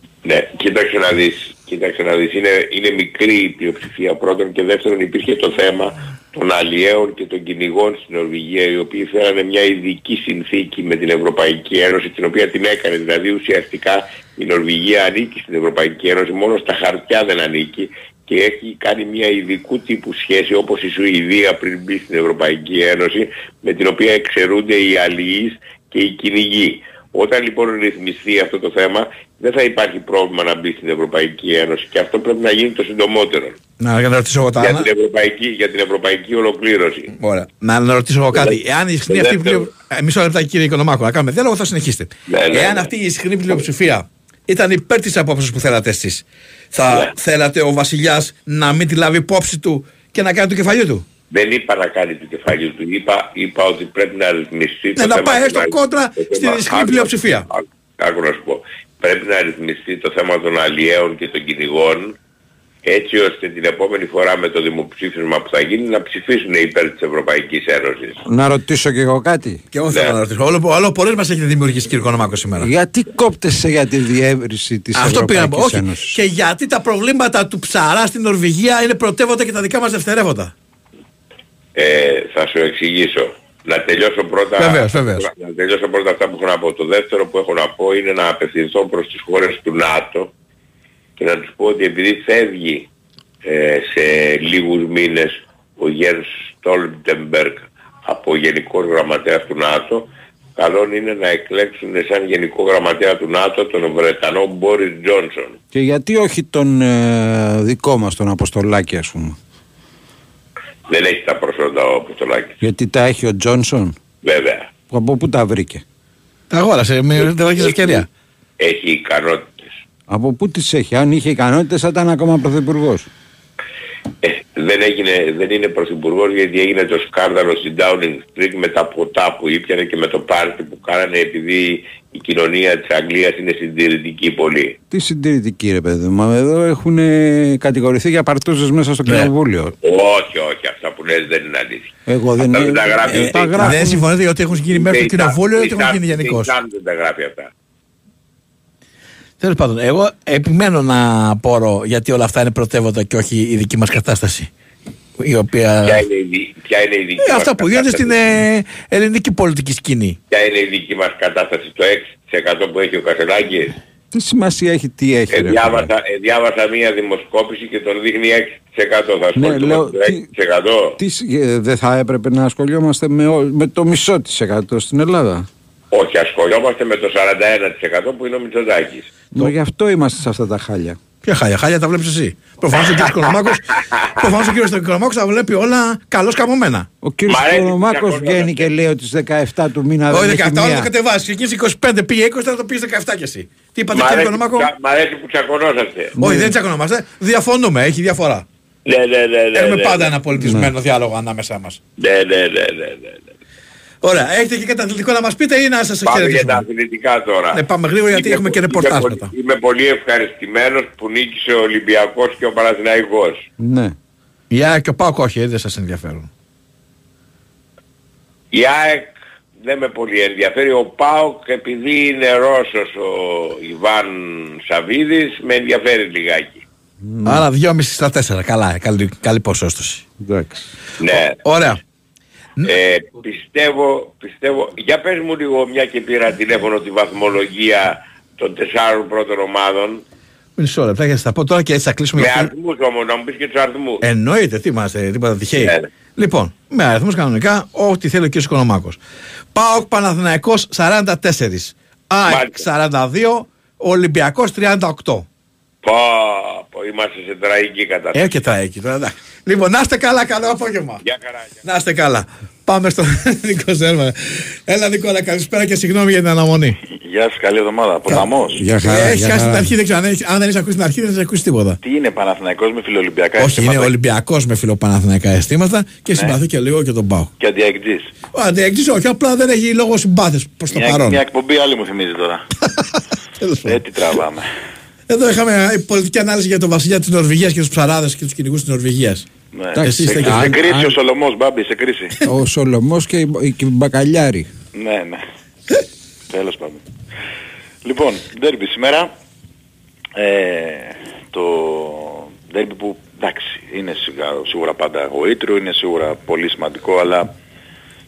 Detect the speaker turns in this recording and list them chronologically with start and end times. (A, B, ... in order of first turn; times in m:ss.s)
0:00.2-0:33.6 A
0:33.8-0:34.9 B
0:34.6-0:37.1 A
0:37.2-0:51.0 B
0:38.3-0:39.7 A
0:42.3-0:42.9 A
0:46.9-0:47.1 A
0:51.3-1:02.2 A
0:55.0-0:57.5 B
1:02.8-1:08.2 A
1:08.3-1:09.6 C
1:09.7-1:12.7 B
1:09.9-1:10.2 A
1:12.6-1:16.2 C
1:15.0-1:20.5 B
1:21.8-1:30.3 A
1:24.6-1:25.3 B
1:31.2-1:32.9 A
1:33.4-1:45.6 A
1:45.7-1:49.4 C
1:50.9-1:52.6 A
1:52.6-1:54.0 C
1:54.2-1:54.7 A
1:54.9-1:55.8 C
1:56.5-1:58.1 B
1:57.2-1:58.0 A
1:58.6-1:59.7 A
2:00.1-2:03.1 C
2:04.2-2:14.8 A
2:14.9-2:19.8 C
2:19.8-2:23.8 A
2:22.1-2:24.0 C
2:23.1-2:26.5 B
2:24.7-2:27.5 A
2:29.4-2:34.5 B
2:35.2-2:36.0 B
2:35.8-2:38.2 A
2:37.2-2:40.2 B
2:40.3-2:43.8 A
2:44.1-2:45.9 C
2:45.3-2:51.0 A
2:49.4-2:50.3 C
2:51.0-2:55.5 C
2:55.9-2:59.1 A
2:59.3-3:01.0 C
3:01.2-3:03.6 B
3:02.7-3:03.2 A
3:03.9-3:04.3 A
3:04.2-3:06.9 B
3:07.0-3:10.9 C
3:07.3-3:08.7 A
3:10.1-3:14.7 B
3:13.9-3:16.2 A
3:16.2-3:18.4 B
3:16.2-3:16.6 C
3:18.9-3:20.2 A
3:19.6-3:21.8 B
3:20.4-3:20.7 C
3:22.0-3:23.2 A
3:24.0-3:26.6 B
3:26.0-3:33.5 A
3:27.5-3:29.3 B
3:33.6-3:34.0 C
3:34.5-3:36.3 B
3:38.5-3:39.1 A
3:39.6-3:46.6 A
3:47.0-3:47.5 C
3:47.3-3:50.0 B
3:50.2-3:50.7 C
3:51.0-3:51.4 A
3:51.1-3:51.8 B
3:52.6-4:00.0 A
4:00.6-4:02.5 B
4:02.2-4:04.0 A
4:04.0-4:09.0 B
4:05.6-4:05.9 A
4:09.5-4:15.3 B
4:12.3-4:12.6 A
4:15.8-4:18.3 A
4:18.1-4:21.0 B
4:21.0-4:21.6 A
4:21.6-4:26.8 B
4:27.0-4:28.6 D
4:28.6-4:29.7 C
4:28.8-4:31.8 B
4:31.8-4:33.9 D
4:33.4-4:37.3 B
4:37.4-4:38.1 D
4:38.3-4:41.2 B
4:40.7-4:42.4 D
4:43.4-4:43.8 B
4:43.7-4:44.5 D
4:45.1-4:49.3 B
4:49.5-4:52.2 D
4:49.8-4:51.0 C
4:49.8-4:50.6 B
4:52.2-4:54.5 C
4:54.8-4:55.2 D
4:56.3-4:56.8 D
4:57.8-4:59.1 D
5:00.2-5:07.3 D